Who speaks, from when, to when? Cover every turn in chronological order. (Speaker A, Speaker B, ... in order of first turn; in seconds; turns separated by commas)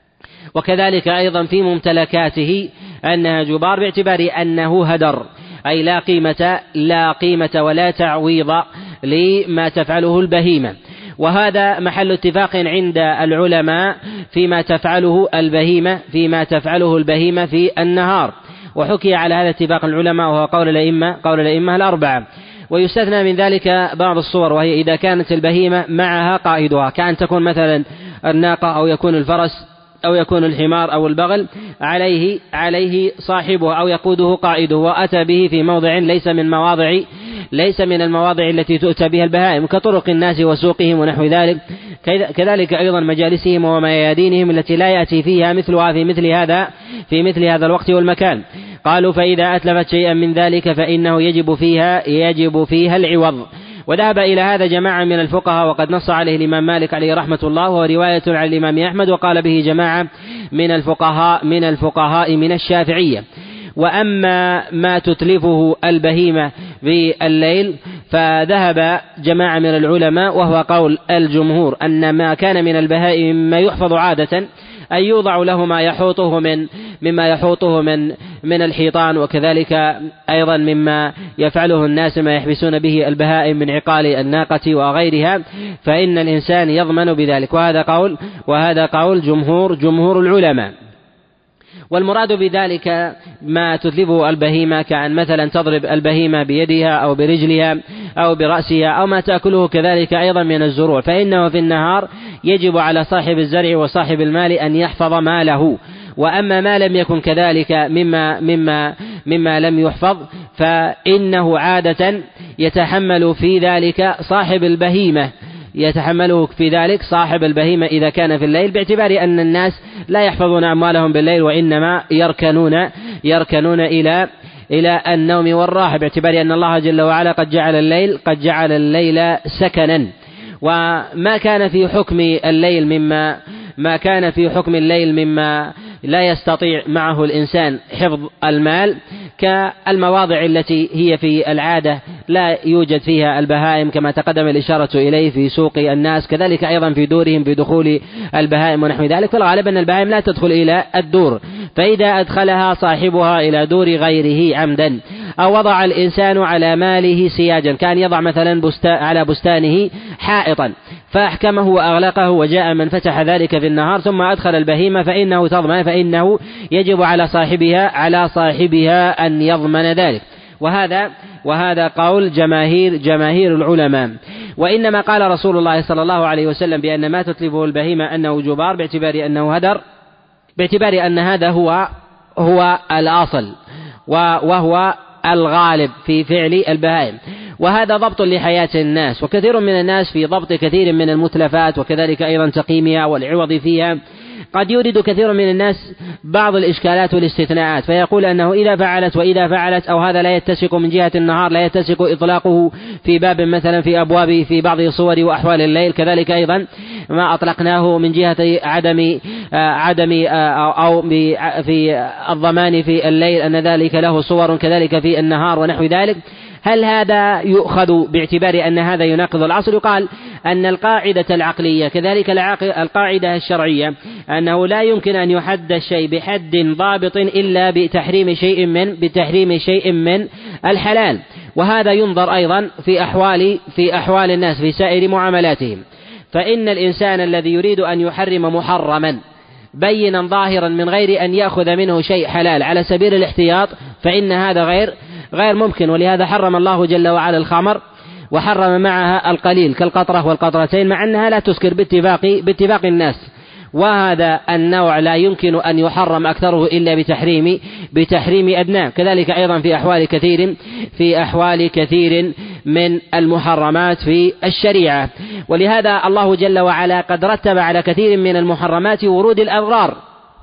Speaker A: 0.5-63.2, Speaker A: 63.8-90.7, Speaker A: 91.9-130.1, Speaker A: 130.6-179.8, Speaker A: 180.6-183.5, Speaker A: 184.1-194.0, Speaker A: 194.5-239.2, Speaker A: 239.8-247.8, Speaker A: 248.3-253.2, Speaker A: 253.8-269.9